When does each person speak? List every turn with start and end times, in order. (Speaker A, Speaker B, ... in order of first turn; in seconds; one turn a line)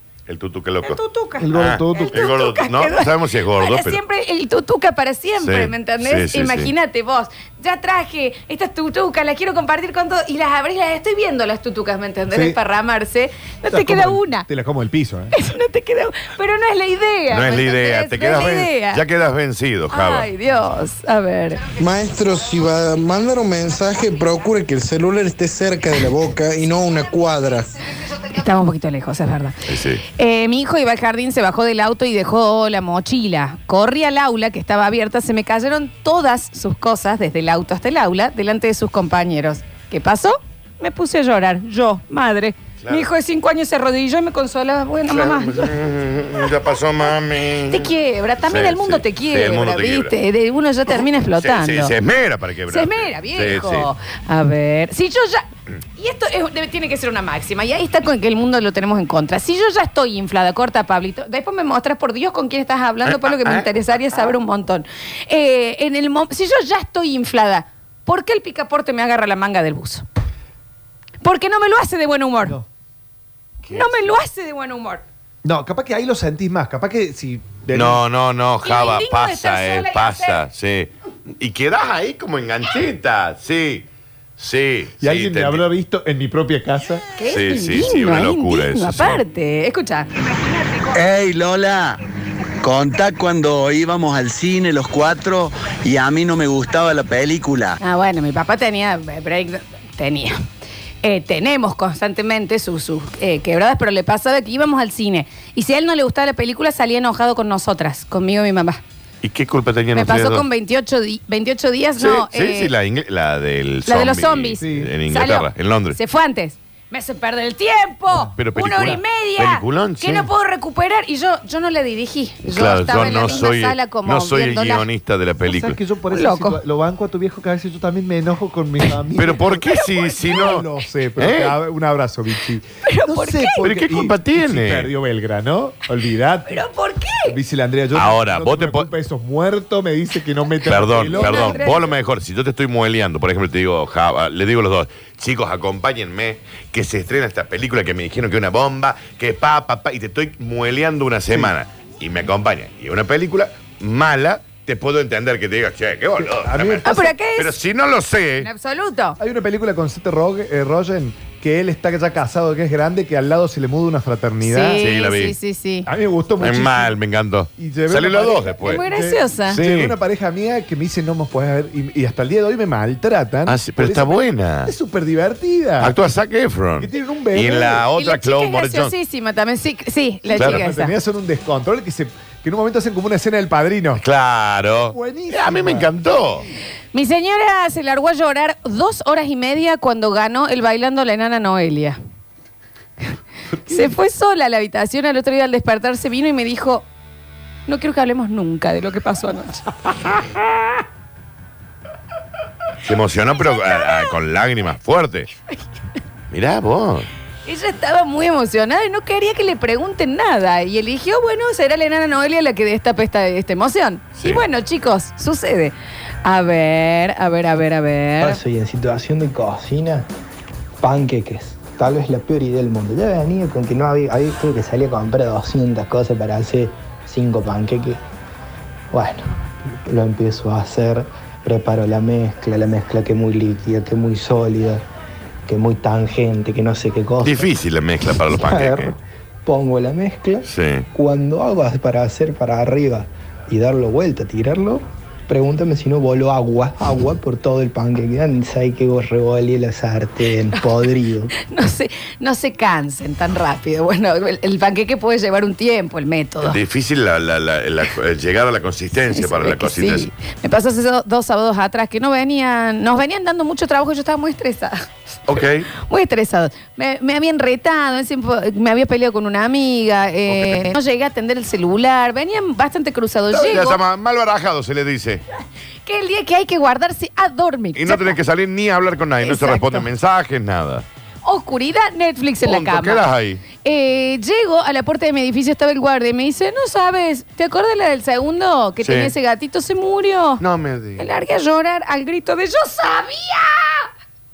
Speaker A: 0.3-1.0
Speaker B: 0.8-14.5
Speaker C: 1.4-2.2
Speaker A: 1.5-4.0
Speaker A: 5.4-6.7
Speaker C: 12.3-12.6
Speaker C: 13.7-15.3
Speaker B: 15.3-19.0
Speaker A: 17.3-20.3
Speaker B: 19.9-21.6
Speaker D: 21.8-27.7
Speaker B: 28.2-45.7
Speaker A: 29.7-30.0
Speaker A: 45.1-47.9
Speaker B: 47.7-51.9
Speaker A: 48.4-50.1
Speaker A: 51.4-53.9
Speaker B: 52.7-55.4
Speaker B: 56.0-70.0
Speaker A: 63.0-63.7
Speaker B: 71.2-72.6
Speaker A: 73.6-74.1
Speaker B: 73.7-75.0
Speaker C: 75.4-78.0
Speaker A: 77.7-83.9
Speaker B: 78.6-80.4
Speaker A: 84.4-85.6
Speaker C: 85.0-87.0
Speaker B: 87.2-90.7
Speaker A: 87.3-89.2
Speaker E: 90.9-92.0
Speaker E: 92.6-97.8
Speaker B: 97.8-100.4
Speaker B: 101.0-108.8
Speaker A: 109.2-110.4
Speaker B: 109.9-112.7
Speaker A: 112.0-116.0
Speaker B: 113.8-124.9
Speaker C: 114.6-114.9
Speaker A: 118.3-120.3
Speaker A: 122.5-125.8
Speaker C: 125.4-136.7
Speaker B: 126.1-126.6
Speaker A: 129.1-130.7
Speaker B: 129.5-130.4
Speaker A: 131.2-131.6
Speaker B: 132.8-133.6
Speaker A: 133.6-134.9
Speaker B: 136.5-137.4
Speaker C: 137.2-141.8
Speaker A: 137.9-138.9
Speaker A: 140.7-158.5
Speaker B: 141.1-141.9
Speaker C: 156.2-157.1
Speaker B: 156.8-157.6
Speaker B: 158.4-159.2
Speaker C: 159.2-164.8
Speaker B: 164.4-165.9
Speaker A: 164.8-165.3
Speaker C: 165.8-167.0
Speaker A: 166.4-168.8
Speaker C: 167.6-175.9
Speaker B: 168.6-169.6
Speaker A: 169.5-169.9
Speaker A: 173.5-174.7
Speaker A: 175.8-178.9
Speaker C: 176.8-177.9
Speaker B: 177.9-180.9
Speaker C: 180.2-184.0
Speaker A: 180.3-180.6
Speaker A: 184.0-186.4
Speaker C: 184.8-185.9
Speaker B: 186.9-192.0
Speaker B: 193.7-196.8
Speaker B: 197.7-200.4
Speaker A: 202.8-205.3
Speaker B: 203.4-204.1
Speaker A: 206.3-207.1
Speaker B: 207.4-218.4
Speaker A: 214.2-214.4
Speaker F: 218.2-220.1
Speaker F: 220.8-228.0
Speaker F: 228.9-234.8
Speaker F: 235.4-237.5
Speaker A: 237.2-238.9
Speaker F: 238.3-251.3
Speaker A: 240.4-240.8
Speaker B: 251.3-256.6
Speaker A: 256.4-260.1
Speaker B: 259.1-273.8
Speaker A: 265.3-265.7
Speaker A: 270.3-270.7
Speaker A: 273.3-275.2
Speaker B: 275.9-278.2
Speaker A: 277.7-280.8
Speaker B: 279.2-279.9
Speaker B: 281.2-283.0
Speaker A: 282.4-283.4
Speaker B: 283.5-290.4
Speaker A: 288.8-289.1
Speaker A: 290.4-291.1
Speaker B: 291.0-293.9